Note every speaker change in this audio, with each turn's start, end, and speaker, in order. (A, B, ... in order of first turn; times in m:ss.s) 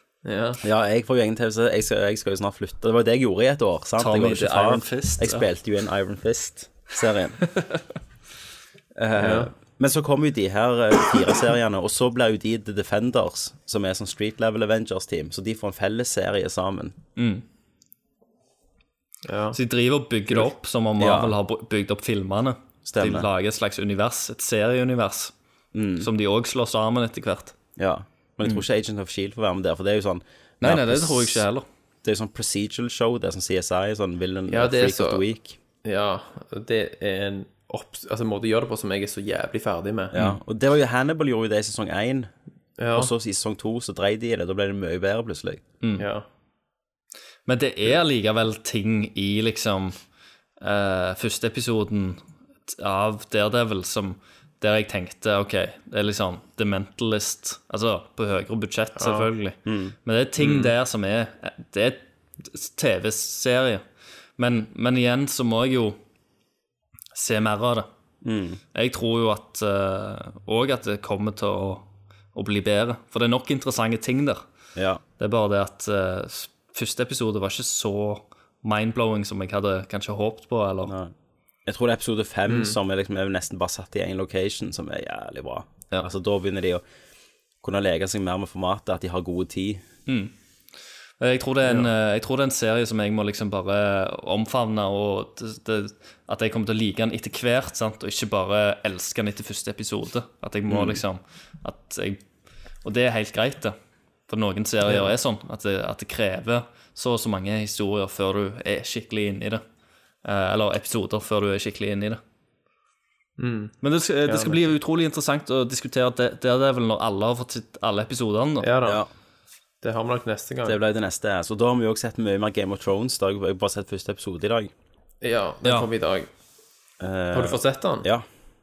0:00.2-0:00.6 A
0:00.6-0:07.4 B
0:04.0-0:05.5 C
0:09.0-0:17.0 B
0:09.2-0:09.5 A
0:17.2-0:17.4 C
0:19.3-0:19.6 A
0:19.5-0:25.3 C
0:21.0-0:21.4 B
0:22.9-0:23.3 B
0:25.7-0:26.1 B
0:26.0-0:27.6 C
0:27.8-0:31.4 B
0:30.6-0:31.6 C
0:32.0-0:35.6 B
0:34.5-0:35.2 A
0:35.8-0:40.2 A
0:40.1-0:42.3 B
0:42.8-0:43.1 A
0:43.0-0:45.6 B
0:46.0-0:46.2 A
0:47.5-0:50.0 C
0:50.6-0:59.4 C
0:59.0-0:59.5 A
0:59.7-0:59.9 B
1:00.0-1:03.8 C
1:00.4-1:00.7 A
1:04.4-1:06.0 C
1:07.2-1:07.9 C
1:08.2-1:08.6 B
1:08.7-1:14.4 C
1:14.8-1:15.0 B
1:15.2-1:20.9 C
1:20.9-1:21.1 B
1:21.7-1:26.8 B
1:22.5-1:22.8 A
1:27.6-1:29.8 B
1:30.1-1:30.3 C
1:31.2-1:42.2 C
1:40.7-1:41.0 B
1:42.8-1:43.7 C
1:44.3-1:49.6 C
1:44.8-1:45.1 A
1:50.2-1:52.2 C
1:53.4-1:53.7 A
1:53.8-1:58.7 C
1:54.3-1:54.6 A
1:58.6-1:59.0 A
1:59.8-2:00.8 A
2:00.6-2:04.7 B
2:05.2-2:06.3 A
2:07.0-2:08.2 B
2:07.3-2:08.1 A